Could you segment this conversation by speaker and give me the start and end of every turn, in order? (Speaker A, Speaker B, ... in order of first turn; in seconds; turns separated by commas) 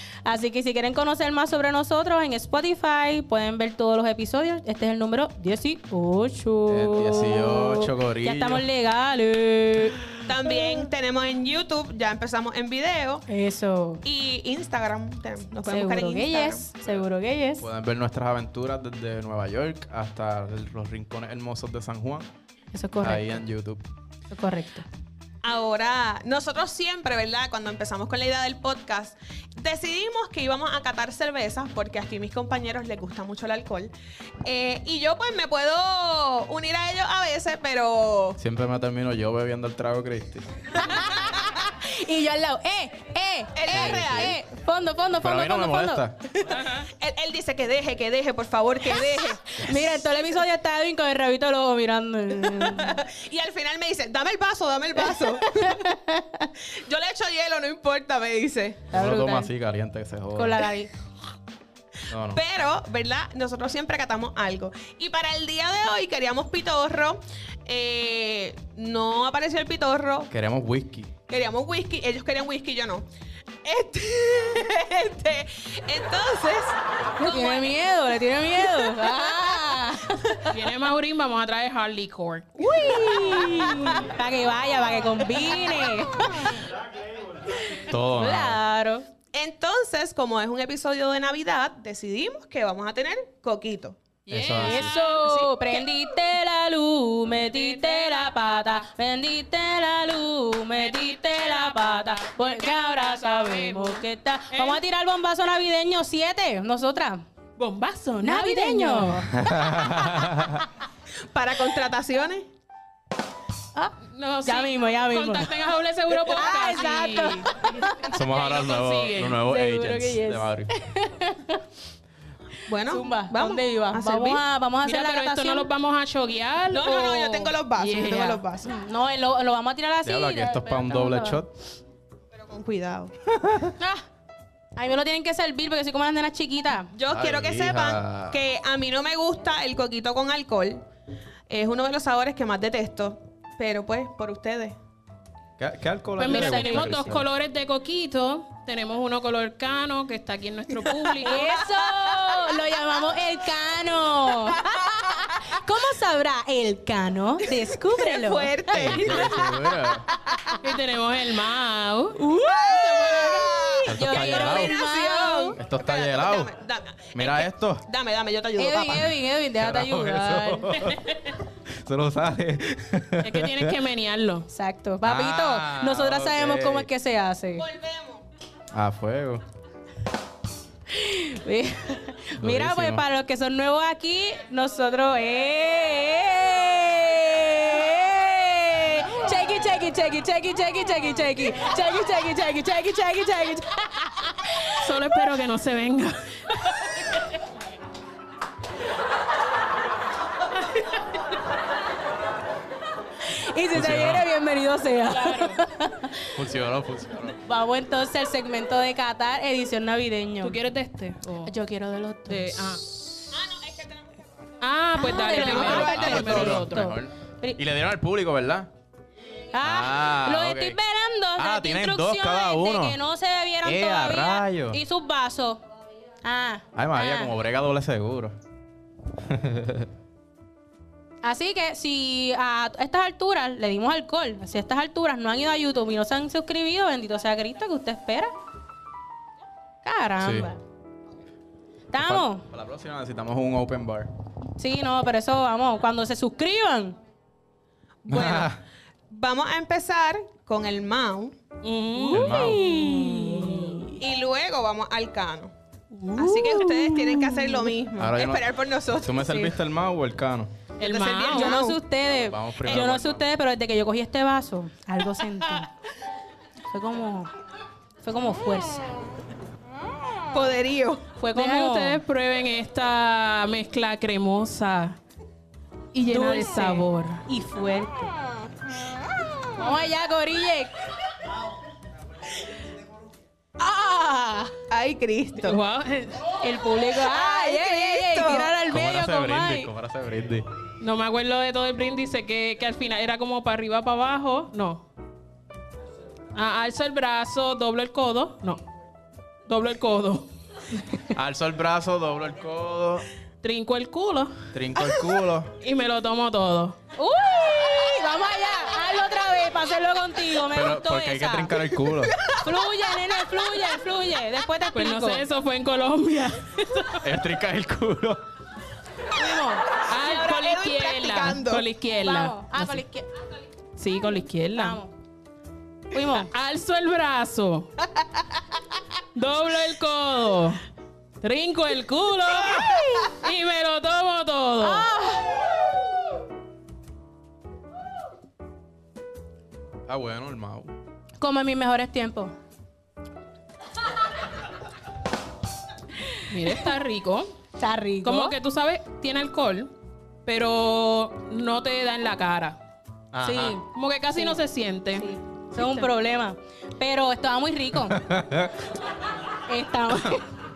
Speaker A: 0.2-10.0, Speaker B: 6.7-8.7, Speaker C: 10.3-13.2, Speaker A: 13.3-14.0, Speaker C: 14.0-16.7, Speaker A: 15.7-17.6, Speaker B: 17.6-22.3, Speaker A: 22.7-23.4, Speaker B: 23.0-23.8, Speaker A: 24.3-24.9, Speaker C: 25.4-33.9, Speaker C: 34.5-38.4, Speaker B: 38.4-40.7, Speaker A: 40.8-46.0, Speaker C: 43.5-44.4, Speaker B: 43.7-44.4, Speaker B: 45.2-46.2, Speaker C: 46.5-49.6, Speaker A: 49.0-53.0, Speaker C: 52.5-55.9, Speaker A: 55.3-56.5, Speaker C: 56.6-58.9, Speaker A: 58.9-59.5, Speaker B: 58.9-60.7, Speaker A: 60.4-60.9, Speaker B: 62.1-62.4, Speaker C: 62.3-70.3, Speaker B: 70.3-71.1, Speaker C: 71.3-73.1, Speaker C: 73.6-77.7, Speaker A: 77.2-80.5, Speaker C: 78.7-79.3, Speaker D: 80.5-82.5, Speaker A: 82.6-86.7, Speaker C: 82.7-84.0, Speaker B: 87.9-88.6, Speaker A: 87.9-89.1, Speaker C: 89.3-94.0, Speaker D: 94.3-95.3, Speaker B: 94.3-95.0, Speaker A: 94.6-107.2, Speaker C: 95.2-95.5, Speaker D: 97.4-98.8, Speaker D: 100.9-104.8, Speaker D: 107.6-109.3, Speaker A: 108.2-109.3, Speaker B: 109.3-110.6, Speaker C: 111.3-112.5, Speaker A: 113.8-115.5, Speaker D: 114.1-119.4, Speaker A: 116.2-118.2, Speaker B: 118.1-120.7, Speaker A: 119.4-121.6, Speaker C: 122.7-124.4, Speaker A: 122.9-125.7, Speaker D: 124.8-128.4, Speaker C: 126.7-128.7, Speaker A: 128.6-131.4, Speaker B: 130.1-131.5, Speaker C: 132.3-133.2, Speaker A: 133.8-134.0, Speaker A: 134.8-136.9, Speaker C: 136.9-140.8, Speaker B: 137.1-138.4, Speaker C: 141.5-144.8, Speaker B: 145.6-147.3, Speaker D: 146.2-151.5, Speaker A: 146.2-147.2, Speaker C: 150.9-152.4, Speaker A: 151.2-159.3, Speaker C: 157.9-159.7, Speaker B: 158.7-160.1, Speaker D: 160.6-162.2, Speaker A: 162.2-165.6, Speaker C: 162.3-169.2, Speaker B: 163.9-164.8, Speaker B: 165.6-166.5, Speaker B: 167.1-167.8, Speaker A: 168.6-170.8, Speaker B: 169.6-173.8, Speaker D: 173.2-174.5, Speaker A: 174.5-177.7, Speaker B: 175.0-176.9, Speaker C: 177.6-178.2, Speaker B: 178.7-179.4, Speaker A: 180.9-194.8, Speaker B: 182.4-183.1, Speaker D: 194.7-196.7, Speaker A: 203.2-206.3, Speaker B: 203.7-204.3, Speaker D: 205.1-205.6, Speaker B: 206.3-207.4, Speaker A: 207.4-210.6, Speaker D: 210.4-211.5, Speaker A: 211.4-213.3, Speaker D: 212.3-212.8, Speaker C: 213.3-214.1, Speaker D: 214.6-216.9, Speaker A: 214.9-217.6, Speaker B: 215.4-218.7, Speaker A: 219.5-225.6, Speaker B: 219.6-220.8, Speaker B: 221.4-223.0, Speaker B: 223.6-224.8, Speaker A: 226.2-227.3, Speaker B: 226.8-228.4, Speaker B: 229.2-229.9, Speaker A: 231.2-238.3, Speaker A: 239.8-240.6, Speaker B: 240.2-240.5, Speaker A: 241.9-242.4, Speaker B: 242.0-244.1, Speaker A: 244.6-247.0, Speaker C: 248.1-248.5, Speaker B: 248.1-248.6, Speaker C: 249.1-251.4, Speaker D: 251.6-253.9, Speaker A: 251.9-254.0, Speaker B: 252.1-252.7, Speaker C: 254.0-255.5, Speaker D: 255.9-257.7, Speaker C: 256.1-259.6, Speaker B: 258.0-260.5, Speaker D: 260.8-261.6, Speaker C: 260.8-261.8, Speaker A: 261.3-265.7, Speaker B: 262.1-263.2, Speaker A: 266.7-267.3, Speaker A: 268.0-268.9, Speaker C: 270.3-271.0, Speaker A: 271.2-272.0, Speaker D: 271.4-275.0, Speaker D: 275.9-277.2, Speaker A: 276.1-278.1, Speaker A: 279.6-280.8, Speaker A: 283.6-284.5, Speaker C: 284.7-285.6, Speaker D: 285.4-286.3, Speaker A: 286.4-289.7, Speaker C: 286.9-288.5, Speaker B: 288.6-290.5, Speaker D: 290.8-294.8, Speaker D: 296.4-298.6, Speaker D: 299.5-300.3, Speaker B: 301.1-303.1, Speaker D: 303.4-304.4, Speaker B: 304.5-305.5, Speaker D: 305.6-306.8, Speaker A: 307.0-311.5, Speaker B: 310.5-312.1, Speaker A: 312.4-315.2, Speaker D: 314.7-317.0, Speaker B: 317.0-318.2, Speaker A: 319.1-319.7, Speaker D: 319.9-322.8, Speaker C: 319.9-321.6, Speaker A: 322.0-323.1, Speaker D: 323.8-324.8, Speaker A: 324.6-324.9, Speaker A: 325.9-326.3, Speaker D: 326.3-327.7, Speaker D: 329.1-330.6, Speaker D: 331.2-334.9, Speaker A: 332.5-333.1, Speaker A: 334.6-335.3, Speaker B: 339.9-340.7, Speaker A: 341.2-342.3, Speaker D: 346.3-347.3, Speaker A: 347.6-348.4, Speaker D: 348.0-349.7, Speaker D: 350.3-352.6, Speaker B: 353.1-353.6, Speaker A: 353.2-354.4, Speaker D: 353.7-355.9, Speaker A: 355.0-358.0, Speaker B: 357.9-358.6, Speaker A: 359.5-360.2